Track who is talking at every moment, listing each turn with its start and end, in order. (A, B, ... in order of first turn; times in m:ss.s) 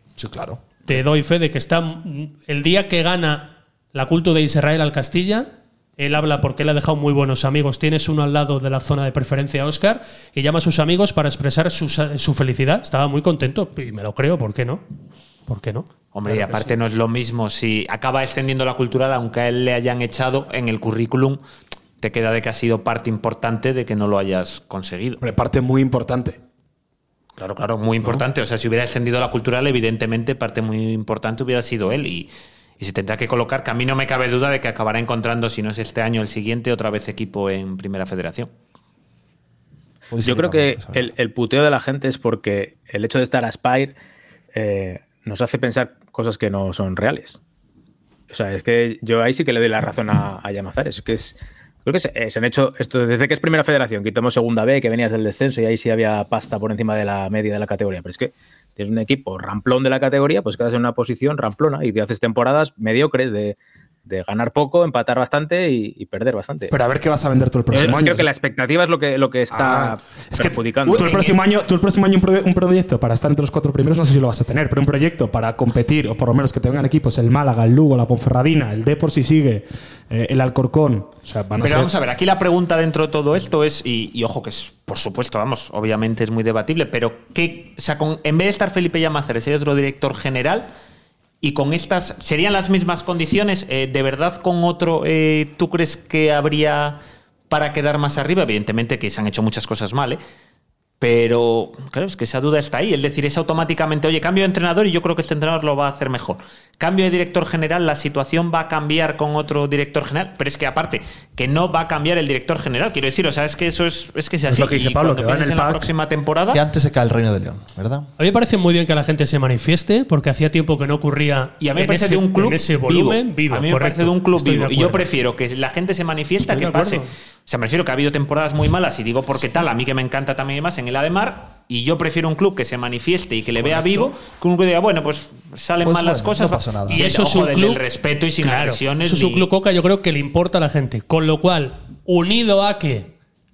0:00.2-0:00.6 A
0:00.8-0:14.8 B
0:15.5-0:16.7 B
0:16.1-0:21.4 C
0:22.0-0:25.2 C
0:25.2-0:26.4 D
0:27.4-0:38.5 C
0:40.1-0:41.1 A
0:40.2-0:44.0 E
0:44.5-0:47.4 E
0:48.3-1:06.7 E
1:06.7-1:08.2 D
1:07.7-1:11.4 E
1:09.5-1:21.9 D
1:21.6-1:30.7 C
1:31.4-1:37.0 C
1:37.5-1:40.2 C
1:41.0-1:56.6 C
1:54.4-1:55.9 D
1:56.5-1:58.1 A
1:58.2-2:05.1 B
2:01.6-2:19.5 C
2:06.4-2:07.1 B
2:15.8-2:17.0 A
2:16.9-2:17.8 B
2:18.4-2:23.1 B